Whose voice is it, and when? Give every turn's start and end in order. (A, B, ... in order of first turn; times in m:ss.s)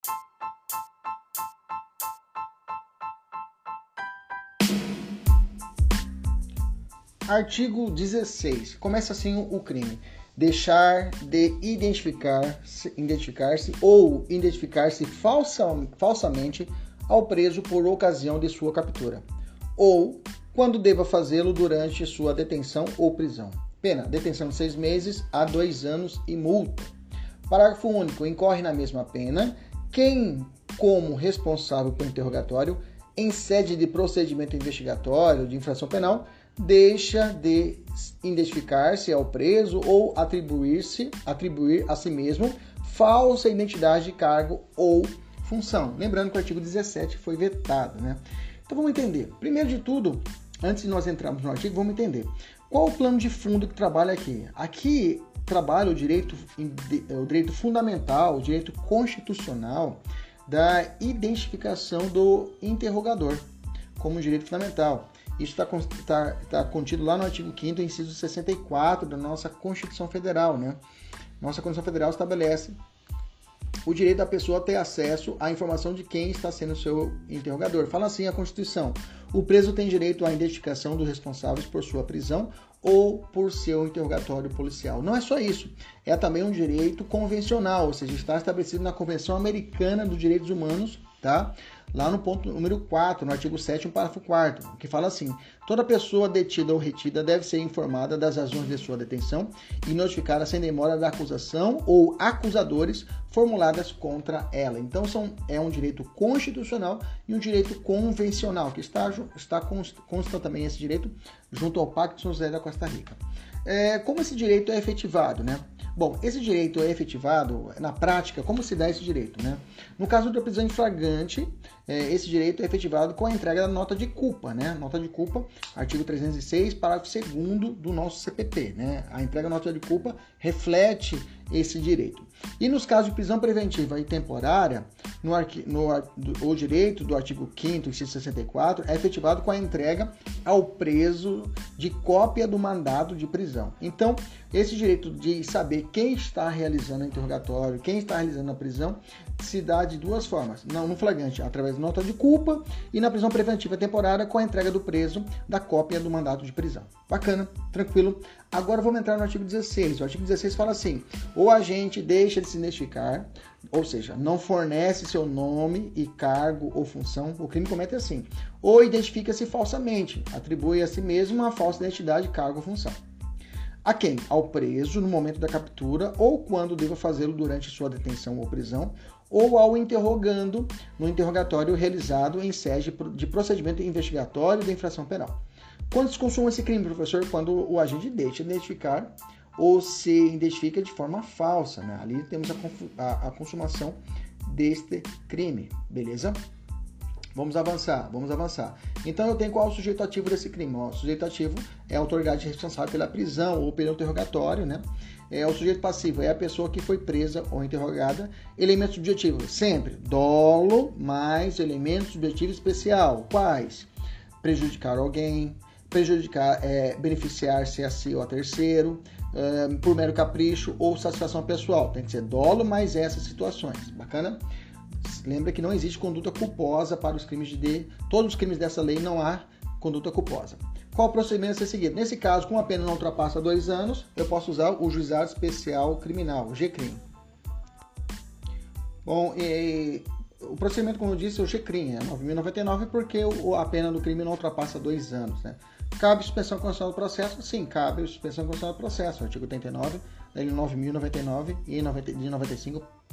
0:07.3-0:19.2 A
0:19.8-0:26.9 A
0:27.5-1:03.4 A
1:04.0-1:10.8 A
1:11.4-1:12.8 A
1:13.8-2:53.0 A
2:53.8-3:05.4 A
3:05.9-3:16.4 A
3:17.3-3:33.9 A
3:34.4-3:44.4 A
3:45.0-3:57.0 A
3:59.0-4:12.8 A